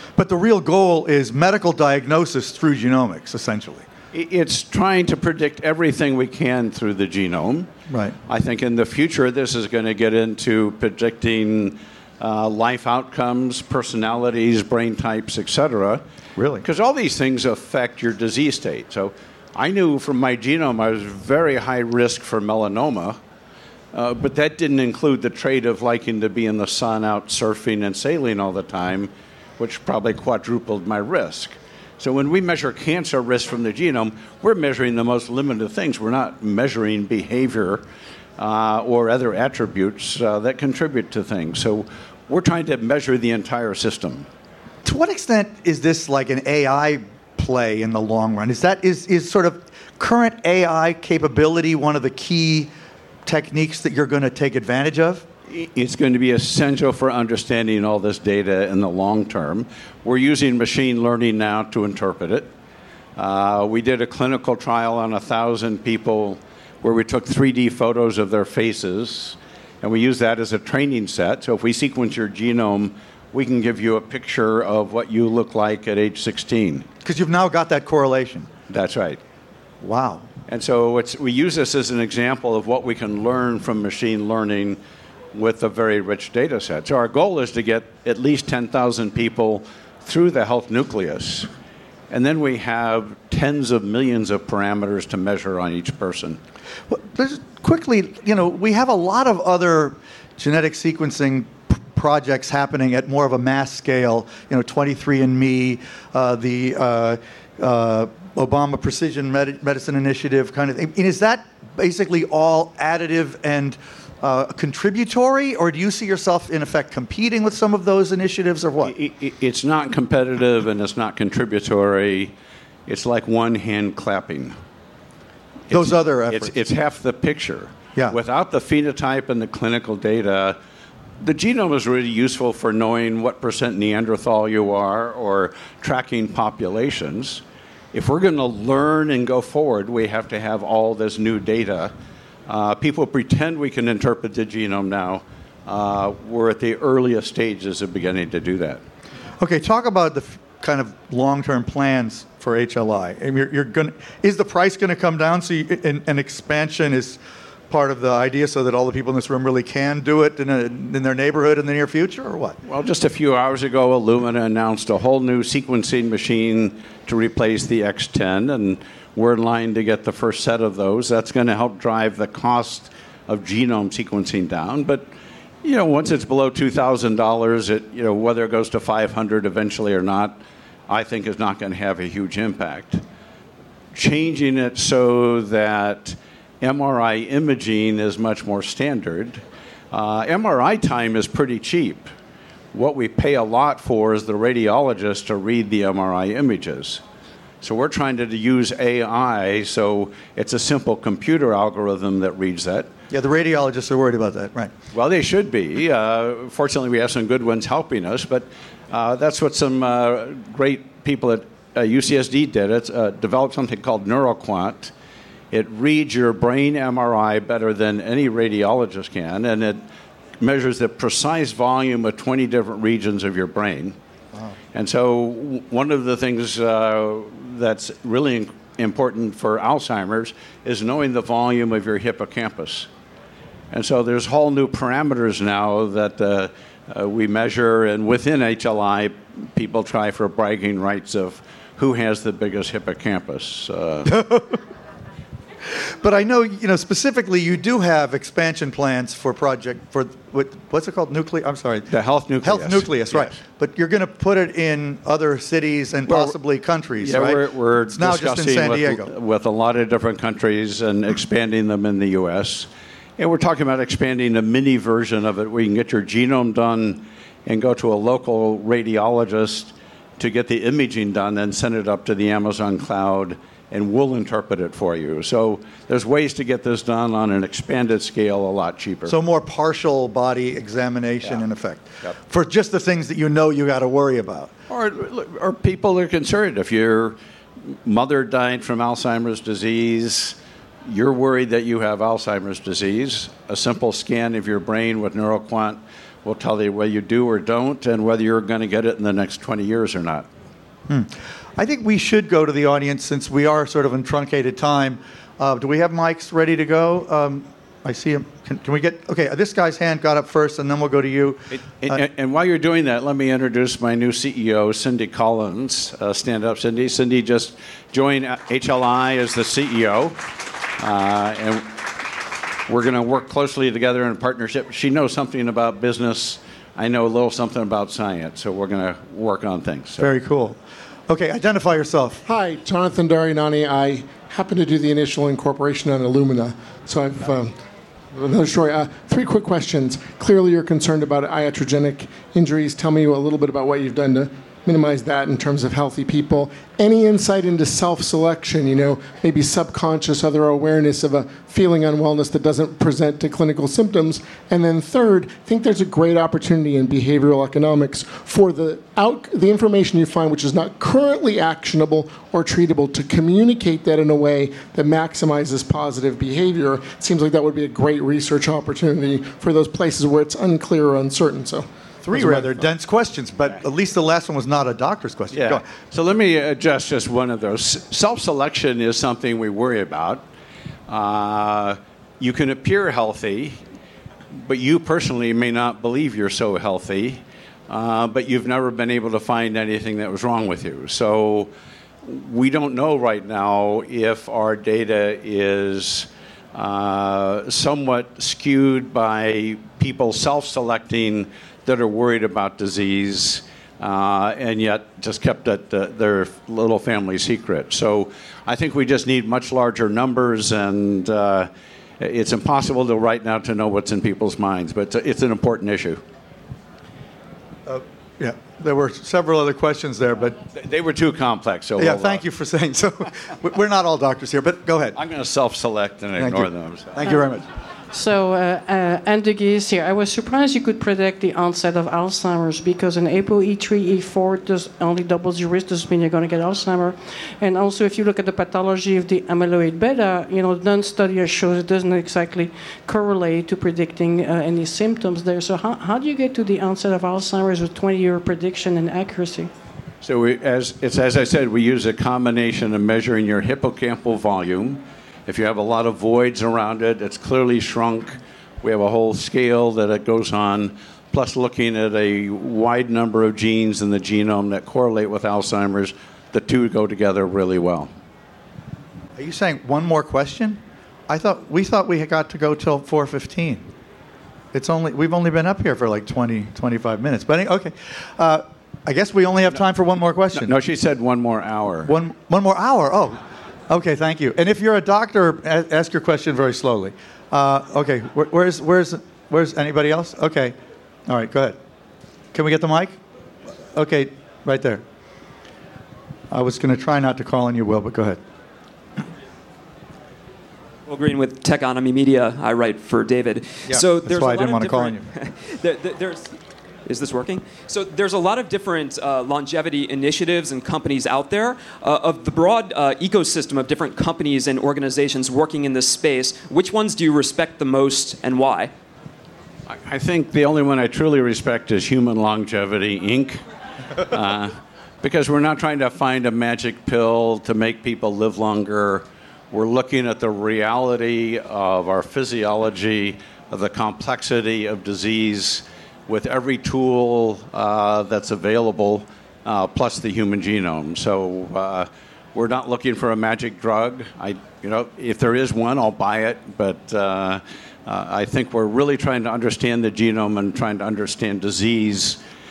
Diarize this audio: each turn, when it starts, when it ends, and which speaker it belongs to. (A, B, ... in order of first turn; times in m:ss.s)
0:00.2-0:03.9 A
0:04.1-0:07.7 B
0:07.9-0:08.2 A
0:08.3-0:16.0 B
0:16.4-0:16.6 A
0:16.6-0:23.2 B
0:23.9-0:37.8 B
0:38.4-0:44.3 B
0:44.8-0:52.7 A
0:53.2-0:55.3 A
0:55.5-1:02.5 B
1:03.2-1:16.9 B
1:17.0-1:18.5 A
1:18.7-1:19.2 B
1:19.8-1:20.3 A
1:20.5-1:24.8 B
1:25.3-1:31.5 B
1:32.1-1:36.4 B
1:36.9-1:58.9 A
1:58.8-2:02.3 B
2:02.9-2:04.6 B
2:05.7-2:10.6 B
2:05.7-2:06.6 A
2:11.2-2:17.4 B
2:17.9-2:21.9 B
2:22.5-2:28.8 B
2:29.4-2:42.6 A
2:42.6-2:55.1 B
2:55.6-3:03.0 B
3:03.9-3:12.1 B
3:12.7-3:17.0 B
3:17.6-3:22.9 B
3:23.1-3:24.7 A
3:24.9-3:34.9 B
3:35.5-3:39.8 B
3:40.4-3:44.0 B
3:44.7-3:52.9 B
3:53.7-4:04.2 B
4:04.1-4:04.6 A
4:05.7-4:11.9 A
4:11.9-4:13.4 B
4:12.4-4:19.1 A
4:16.1-4:16.4 B
4:17.0-4:39.2 B
4:39.1-4:44.5 A
4:44.7-4:47.2 B
4:47.8-5:00.3 B
5:00.9-5:12.0 A
5:11.5-5:21.8 B
5:22.7-5:30.1 B
5:30.0-5:32.2 A
5:32.3-5:37.6 C
5:38.1-6:12.4 C
6:12.0-6:15.6 A
6:15.3-6:20.2 B
6:20.9-6:23.6 B
6:24.3-6:31.5 B
6:32.0-6:56.0 B
6:57.7-7:00.4 A
7:00.5-7:02.2 B
7:01.8-7:05.0 A
7:05.0-7:07.1 B
7:06.2-7:07.4 A
7:07.0-7:07.3 D
7:07.9-7:29.5 D
7:30.0-7:47.9 B
7:49.2-7:53.6 A
7:54.5-8:00.5 A
8:00.3-8:01.9 B
8:01.9-8:10.6 A
8:11.1-8:11.6 A
8:12.3-8:13.0 A
8:13.7-8:14.8 A
8:16.3-8:18.2 A
8:20.9-8:26.4 E
8:23.7-8:25.1 A
8:26.9-8:38.7 E
8:39.7-8:43.4 B
8:44.0-9:12.2 B